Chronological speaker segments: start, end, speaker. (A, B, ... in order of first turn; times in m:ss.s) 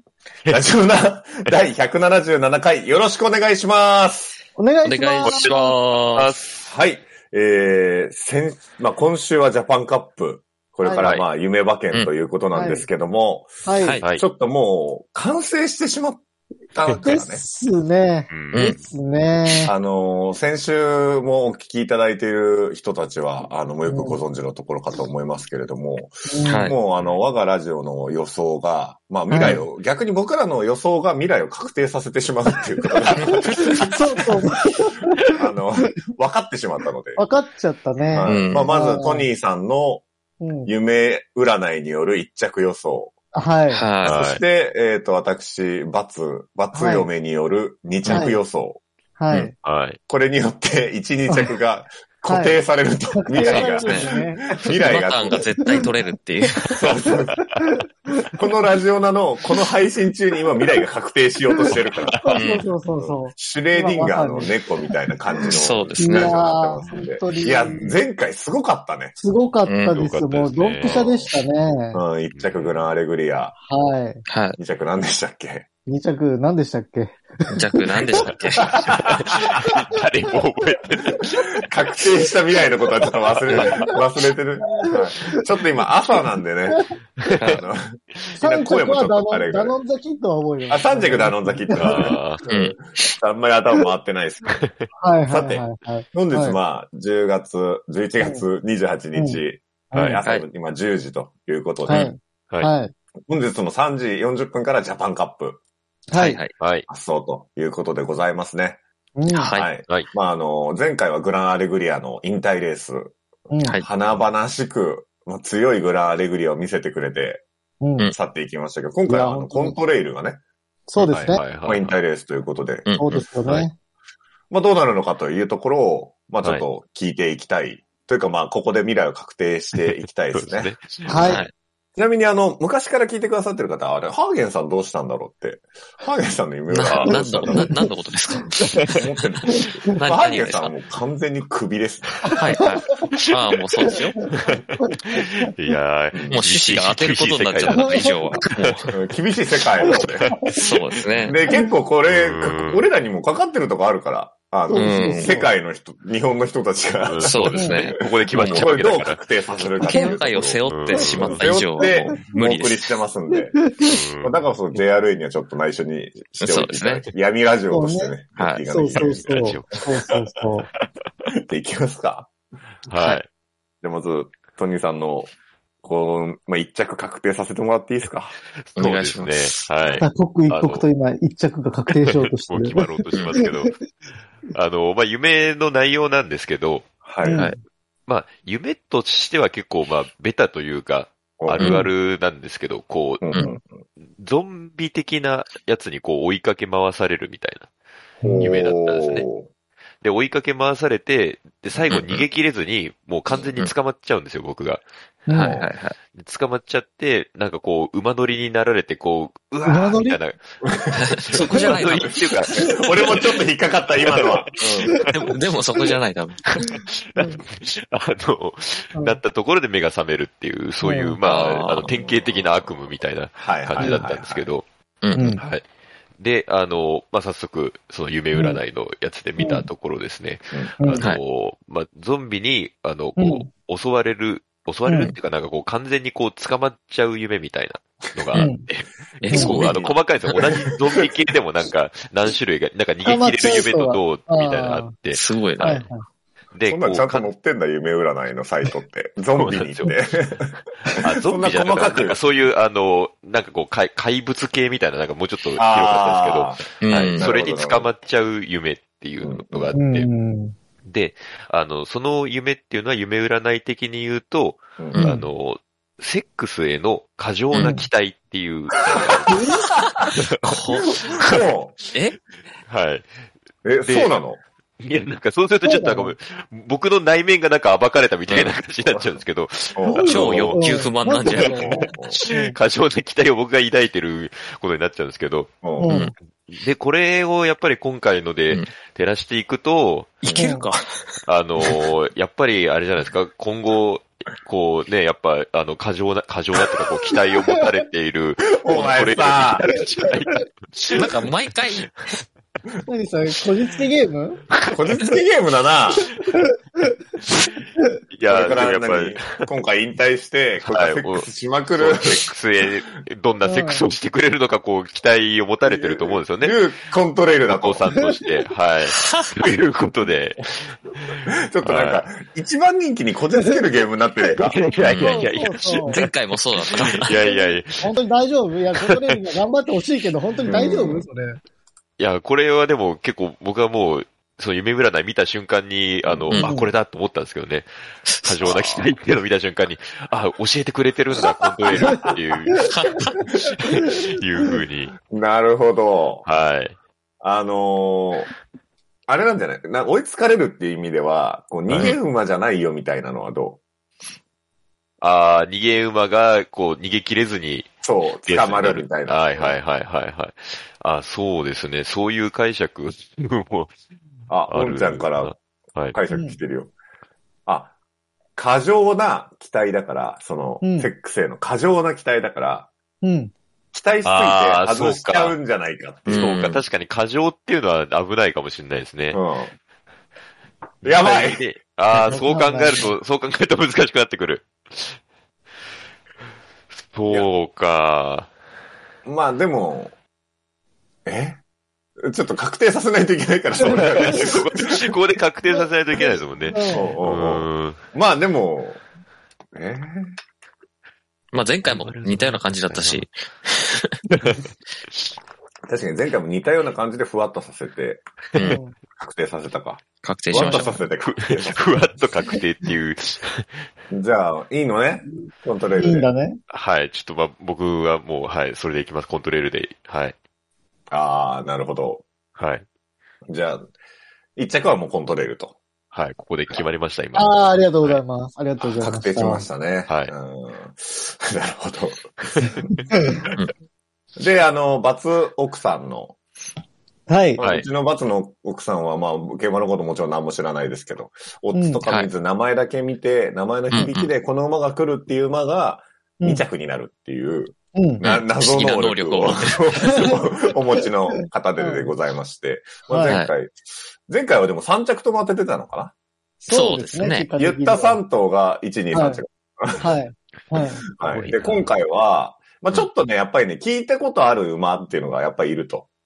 0:00.5-0:04.4 A
0:04.6-0:05.6 B
0:04.8-0:06.4 C
0:05.2-0:06.7 D
0:06.6-0:13.5 A
0:10.8-0:11.1 B
0:11.0-0:11.2 D
0:12.5-0:12.9 B
0:13.6-0:14.0 B
0:13.8-0:14.0 C
0:14.1-0:17.4 A
0:16.9-0:19.7 B
0:18.3-0:18.7 D
0:18.5-0:18.8 C
0:19.6-0:34.5 A
0:23.8-0:24.2 B
0:26.3-0:26.7 B
0:26.4-0:26.8 C
0:26.9-0:27.2 D
0:29.3-0:29.6 B
0:32.9-0:35.3 B
0:35.3-0:37.2 A
0:37.2-0:39.3 B
0:38.0-0:40.0 A
0:38.2-0:38.7 C
0:40.4-0:40.7 B
0:40.6-0:43.1 A
0:43.3-0:43.8 B
0:43.7-0:44.2 C
0:44.0-0:48.8 A
0:44.1-0:44.4 D
0:46.7-0:47.1 B
0:48.0-0:48.3 C
0:48.1-0:48.4 B
0:49.2-0:49.5 B
0:49.6-0:50.0 D
0:50.1-0:55.5 A
0:51.3-0:51.5 B
0:52.2-0:55.0 B
0:53.3-0:54.1 C
0:54.6-0:56.9 C
0:55.6-0:55.8 B
0:56.8-0:57.4 A
0:58.3-1:09.2 A
1:01.6-1:04.6 B
1:02.3-1:02.7 C
1:05.5-1:06.3 C
1:06.0-1:08.0 B
1:07.7-1:07.9 D
1:09.2-1:12.0 B
1:09.6-1:10.1 C
1:09.9-1:11.1 D
1:10.8-1:11.3 A
1:11.9-1:13.6 A
1:12.3-1:12.8 D
1:13.6-1:14.2 B
1:14.3-1:14.6 C
1:14.6-1:15.7 A
1:15.8-1:18.4 B
1:17.5-1:19.0 C
1:18.6-1:19.3 A
1:19.3-1:21.4 D
1:19.3-1:19.7 B
1:21.3-1:26.8 A
1:23.5-1:23.8 B
1:26.7-1:27.4 B
1:27.4-1:27.6 C
1:27.4-1:27.8 A
1:28.4-1:32.2 B
1:28.4-1:29.8 A
1:30.7-1:34.6 A
1:31.8-1:32.4 D
1:32.5-1:33.0 C
1:34.5-1:34.9 D
1:34.9-1:36.6 B
1:35.3-1:42.1 A
1:38.2-1:38.5 B
1:39.1-1:40.2 B
1:41.8-1:42.1 C
1:41.9-1:42.9 B
1:43.3-1:45.6 A
1:46.1-1:46.4 B
1:46.1-1:46.5 C
1:46.6-1:46.9 D
1:46.9-1:48.8 A
1:49.2-1:49.6 B
1:49.3-1:49.8 C
1:49.5-1:57.4 A
1:49.8-1:50.1 D
1:53.5-1:53.8 B
1:57.8-1:58.1 B
1:58.1-2:00.4 A
1:59.1-1:59.8 B
2:00.9-2:01.4 B
2:01.0-2:02.0 D
2:01.6-2:02.9 A
2:03.0-2:03.7 B
2:03.1-2:03.7 D
2:04.5-2:11.4 A
2:09.7-2:11.4 D
2:11.1-2:11.4 B
2:11.2-2:11.5 C
2:12.0-2:17.8 A
2:16.7-2:18.5 C
2:16.9-2:17.2 D
2:17.4-2:17.8 B
2:18.9-2:22.4 A
2:20.0-2:20.7 C
2:22.2-2:22.7 B
2:22.4-2:24.2 C
2:24.3-2:24.5 D
2:24.5-2:25.3 B
2:25.6-2:28.8 D
2:26.1-2:26.4 A
2:26.3-2:28.9 C
2:27.7-2:28.4 B
2:28.9-2:30.5 A
2:29.9-2:30.6 B
2:30.6-2:31.4 C
2:31.2-2:43.6 A
2:31.4-2:31.7 B
2:32.0-2:32.9 D
2:34.7-2:35.5 B
2:34.7-2:35.3 C
2:37.0-2:39.2 D
2:37.2-2:38.7 C
2:37.6-2:37.9 B
2:39.8-2:40.2 B
2:39.8-2:42.8 C
2:40.6-2:41.5 D
2:41.0-2:42.4 B
2:43.3-2:44.0 B
2:43.9-2:44.3 D
2:44.2-2:49.5 A
2:46.4-2:47.1 C
2:47.7-2:50.7 B
2:48.4-2:48.6 C
2:48.9-2:49.8 D
2:51.5-2:52.3 A
2:52.9-2:53.3 D
2:52.9-2:53.2 C
2:53.8-2:55.3 A
2:55.8-2:58.3 A
2:58.6-3:00.9 D
2:58.8-3:00.0 C
3:00.0-3:03.7 B
3:01.9-3:03.8 D
3:03.1-3:03.4 C
3:04.5-3:06.9 D
3:07.0-3:07.4 A
3:07.2-3:07.6 B
3:07.3-3:07.6 C
3:08.1-3:13.4 D
3:11.4-3:11.8 A
3:11.6-3:11.9 C
3:13.2-3:13.8 A
3:14.0-3:17.7 D
3:18.2-3:19.5 A
3:18.2-3:18.5 B
3:18.4-3:19.3 D
3:20.0-3:24.8 D
3:21.9-3:22.2 C
3:23.3-3:23.7 C
3:25.3-3:25.6 B
3:25.3-3:26.0 C
3:26.0-3:30.4 D
3:29.6-3:30.2 B
3:30.6-3:35.0 A
3:30.9-3:32.4 C
3:31.2-3:32.6 D
3:31.5-3:31.8 B
3:32.6-3:33.2 B
3:34.0-3:34.5 D
3:35.0-3:35.3 D
3:35.1-3:36.4 C
3:36.4-3:44.6 D
3:36.7-3:37.4 B
3:38.9-3:39.2 B
3:40.8-3:41.2 B
3:41.2-3:41.9 C
3:42.0-3:44.5 A
3:43.8-3:44.0 B
3:45.0-3:45.4 C
3:45.1-3:45.4 B
3:45.3-3:45.6 D
3:46.2-4:05.8 D
3:48.3-3:48.6 B
3:49.4-3:49.7 B
3:50.5-3:51.0 A
3:53.2-3:53.5 B
3:54.8-3:55.1 B
3:58.4-3:58.6 B
3:59.2-3:59.9 C
3:59.3-3:59.7 B
4:00.3-4:01.1 A
4:03.0-4:04.9 B
4:05.1-4:05.8 C
4:05.6-4:06.0 B
4:06.5-4:07.3 D
4:06.6-4:12.2 A
4:09.4-4:10.0 D
4:11.0-4:20.1 D
4:15.6-4:17.9 A
4:16.8-4:17.3 C
4:19.2-4:19.8 A
4:19.7-4:20.5 B
4:20.8-4:29.4 D
4:24.8-4:25.2 A
4:24.9-4:25.3 C
4:27.5-4:27.8 C
4:27.6-4:27.8 B
4:29.0-4:29.8 A
4:29.3-4:29.6 B
4:30.4-4:30.9 C
4:30.9-4:31.8 A
4:32.6-4:33.1 D
4:33.6-4:34.4 A
4:33.8-4:34.2 D
4:34.8-4:41.5 D
4:35.6-4:36.1 B
4:38.3-4:38.5 C
4:38.8-4:40.5 A
4:39.9-4:42.6 B
4:40.0-4:41.9 C
4:41.4-4:42.2 A
4:42.1-4:45.7 D
4:45.6-4:46.0 A
4:45.8-4:46.1 B
4:45.8-4:46.1 C
4:46.4-4:50.4 D
4:50.2-4:51.8 C
4:50.3-4:50.7 B
4:51.2-5:01.0 D
4:57.4-4:57.7 B
4:58.5-4:59.7 A
5:00.9-5:01.9 C
5:02.9-5:04.4 B
5:04.7-5:06.0 A
5:08.1-5:09.5 D
5:08.3-5:12.3 A
5:10.6-5:16.6 D
5:13.4-5:13.8 B
5:15.6-5:17.9 A
5:17.2-5:22.1 D
5:17.9-5:18.4 B
5:21.2-5:24.6 A
5:23.4-5:23.8 B
5:24.4-5:27.9 D
5:24.8-5:27.2 C
5:24.9-5:26.0 B
5:27.2-5:31.4 B
5:28.7-5:29.2 D
5:30.4-5:31.0 A
5:30.5-5:30.8 D
5:32.0-5:37.7 D
5:36.0-5:36.5 A
5:36.3-5:36.6 C
5:36.4-5:36.7 B
5:38.0-5:38.9 C
5:38.2-5:42.6 D
5:41.2-5:42.2 A
5:42.6-5:43.2 C
5:43.5-5:45.0 D
5:45.1-5:46.2 A
5:46.2-5:46.8 D
5:47.2-5:48.3 A
5:49.1-5:53.6 A
5:51.6-5:52.0 D
5:55.0-5:57.7 D
5:57.8-5:59.6 A
5:58.2-6:03.7 D
6:04.3-6:05.4 A
6:04.5-6:06.0 D
6:05.9-6:06.7 A
6:06.1-6:06.4 B
6:07.4-6:07.7 A
6:08.4-6:12.7 A
6:10.6-6:10.9 B
6:13.0-6:13.3 B
6:13.7-6:16.4 A
6:14.0-6:15.4 D
6:16.1-6:19.2 D
6:16.1-6:16.6 C
6:19.1-6:19.5 A
6:20.8-6:21.5 A
6:20.8-6:25.0 D
6:22.1-6:22.8 B
6:26.8-6:28.3 D
6:29.0-6:29.9 A
6:31.0-6:31.4 A
6:32.0-6:34.9 A
6:33.6-6:37.8 D
6:33.6-6:34.1 B
6:36.4-6:37.0 B
6:36.7-6:38.8 A
6:39.5-6:40.1 A
6:41.3-6:43.7 C
6:41.6-6:43.0 D
6:44.1-6:44.4 D
6:45.7-6:48.0 A
6:48.4-6:48.6 C
6:48.4-6:48.7 B
6:49.0-6:51.9 A
6:50.0-6:50.8 C
6:50.3-6:53.6 D
6:53.9-6:56.1 A
6:55.8-6:56.4 B
6:56.5-7:00.1 D
7:00.9-7:02.0 A
7:02.3-7:02.6 D
7:03.3-7:03.7 A
7:04.4-7:05.6 A
7:05.9-7:08.0 D
7:07.1-7:09.5 B
7:08.6-7:12.8 A
7:09.8-7:10.1 D
7:14.2-7:16.2 A
7:17.1-7:17.4 B
7:17.4-7:35.9 A
7:17.4-7:17.7 D
7:21.5-7:21.8 B
7:21.8-7:22.1 C
7:23.7-7:24.1 C
7:27.7-7:28.0 B
7:28.0-7:30.1 C
7:31.1-7:31.9 B
7:32.9-7:33.2 B
7:33.1-7:33.3 C
7:36.4-7:38.0 B
7:36.5-7:37.3 C
7:37.4-7:39.9 A
7:38.9-7:39.2 B
7:39.8-7:40.8 B
7:40.5-7:45.9 A
7:41.0-7:41.7 C